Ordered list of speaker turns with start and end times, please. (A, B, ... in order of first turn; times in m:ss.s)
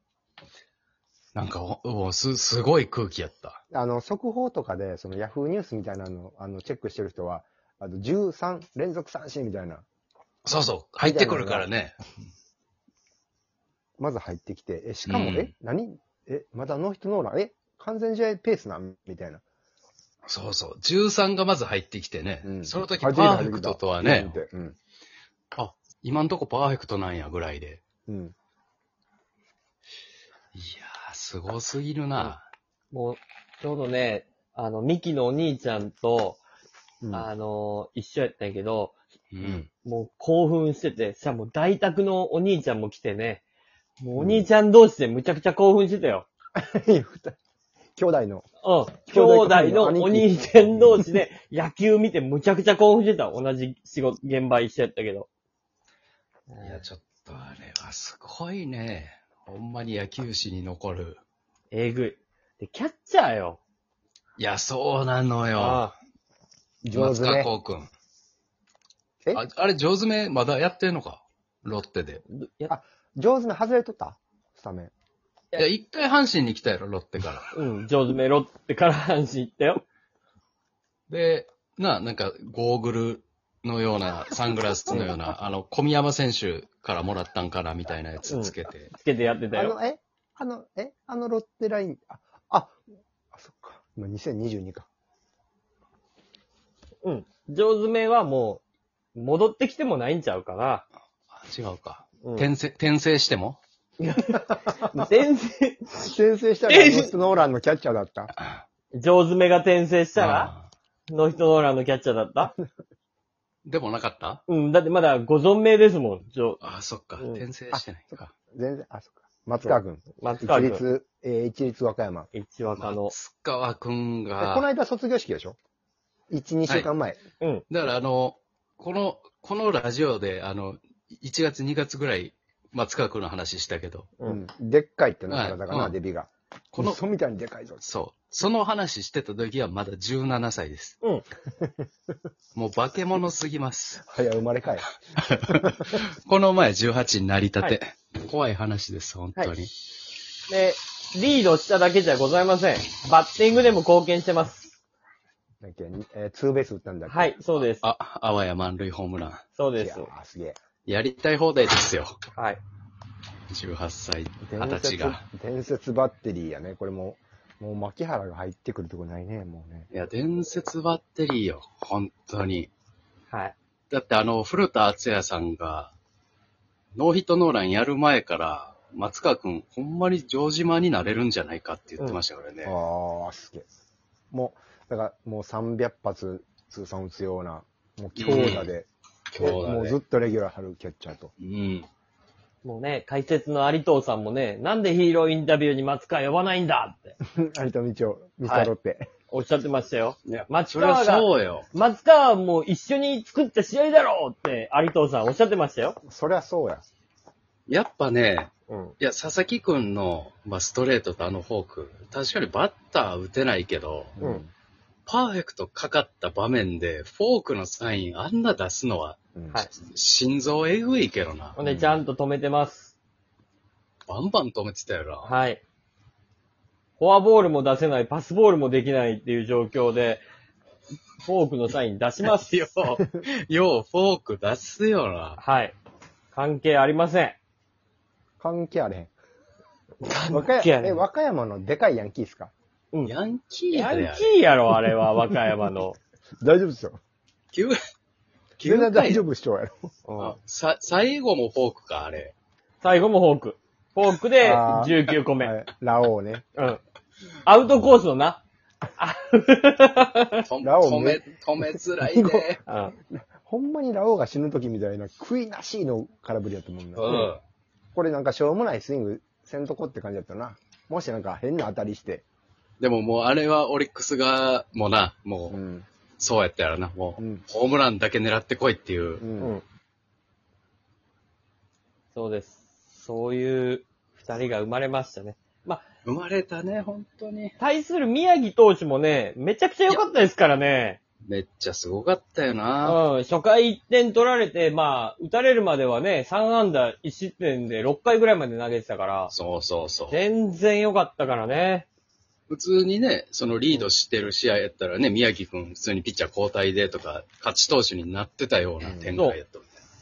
0:01.4-0:03.6 A
0:03.7-0:09.8 B
0:10.4-0:12.0 A
0:11.0-0:11.7 B
0:14.0-0:19.4 B
0:15.1-0:15.5 A
0:20.3-0:24.4 A
0:22.4-0:24.8 B
0:25.6-0:27.8 A
0:28.1-0:28.3 B
0:30.6-0:32.5 A
0:32.9-0:36.4 C
0:37.0-0:37.3 B
0:37.1-0:38.9 C
0:39.3-0:39.7 A
0:39.8-0:43.4 C
0:44.0-0:46.2 C
0:44.2-0:44.5 B
0:46.6-0:47.4 B
0:48.0-0:48.4 B
0:48.6-0:55.3 C
0:49.1-0:51.1 B
0:56.5-0:56.8 C
0:56.6-1:01.2 A
1:01.7-1:03.6 C
1:04.4-1:05.9 A
1:05.6-1:06.0 C
1:06.8-1:07.5 B
1:06.9-1:07.9 A
1:09.3-1:12.2 A
1:12.3-1:12.7 C
1:12.7-1:14.9 B
1:15.6-1:17.5 A
1:17.5-1:19.8 C
1:21.1-1:28.9 A
1:28.3-1:29.8 C
1:29.5-1:32.8 B
1:33.3-1:34.9 B
1:37.0-1:38.6 C
1:39.2-1:40.8 C
1:41.3-1:43.6 A
1:42.2-1:42.5 C
1:44.0-1:46.0 C
1:44.7-1:45.1 B
1:46.0-1:48.3 B
1:46.7-1:47.1 C
1:48.9-1:50.5 C
1:50.2-1:50.7 A
1:51.1-1:52.5 C
1:53.6-1:54.4 A
1:54.5-1:56.6 C
1:56.6-1:58.3 A
1:57.7-2:02.3 B
1:59.7-2:00.8 C
2:02.3-2:03.1 C
2:02.8-2:04.7 A
2:04.4-2:05.6 B
2:06.3-2:07.2 B
2:07.7-2:14.1 A
2:14.2-2:17.8 B
2:15.3-2:15.9 A
2:16.7-2:17.0 A
2:17.8-2:21.0 A
2:22.6-2:24.0 A
2:24.0-2:24.9 B
2:25.2-2:29.7 A
2:25.5-2:25.8 B
2:30.5-2:34.7 C
2:35.6-2:37.3 B
2:37.1-2:37.8 C
2:37.6-2:39.4 A
2:39.6-2:40.1 C
2:39.8-2:40.6 B
2:40.8-2:42.2 A
2:42.3-2:42.6 C
2:43.5-2:45.2 A
2:44.4-2:49.9 B
2:49.9-2:52.7 A
2:53.9-2:55.9 A
2:57.0-3:02.8 A
3:02.6-3:03.7 B
3:04.3-3:08.9 B
3:08.2-3:08.7 A
3:09.3-3:10.0 A
3:09.4-3:11.3 B
3:11.4-3:11.9 A
3:12.6-3:17.2 C
3:17.3-3:19.1 B
3:18.4-3:18.7 C
3:19.3-3:26.0 C
3:20.3-3:21.7 A
3:26.0-3:26.8 B
3:27.7-3:34.2 A
3:28.7-3:28.9 C
3:34.2-3:34.5 B
3:35.1-3:39.2 A
3:39.3-3:39.6 B
3:39.7-3:41.6 A
3:41.6-3:42.9 C
3:41.6-3:42.0 B
3:44.1-3:45.3 A
3:45.2-3:45.6 C
3:47.0-3:50.2 C
3:51.2-3:53.0 C
3:52.2-3:55.4 A
3:55.4-3:55.8 C
3:56.3-3:57.4 C
3:58.4-3:59.1 B
4:00.0-4:01.0 C
4:00.3-4:02.5 B
4:03.0-4:04.4 A
4:03.7-4:06.0 C
4:06.4-4:07.0 B
4:07.5-4:07.8 A
4:08.6-4:09.2 A
4:08.6-4:09.9 B
4:10.1-4:10.4 C
4:10.2-4:12.3 A
4:12.8-4:15.6 C
4:14.4-4:16.4 B
4:17.4-4:18.4 C
4:19.0-4:20.4 C
4:20.4-4:22.6 A
4:20.6-4:21.2 B
4:22.1-4:22.5 B
4:22.7-4:22.9 C
4:23.1-4:27.3 B
4:26.9-4:27.4 A
4:27.9-4:32.2 B
4:32.8-4:35.6 A
4:35.5-4:35.9 B
4:36.2-4:39.2 A
4:37.2-4:37.4 B
4:39.2-4:39.5 B
4:42.1-4:45.8 C
4:46.0-4:47.5 A
4:47.6-4:51.0 C
4:51.2-4:53.0 A
4:52.8-4:59.3 C
4:59.3-5:00.2 A
5:00.1-5:01.9 C
5:02.5-5:09.8 A
5:08.8-5:09.2 B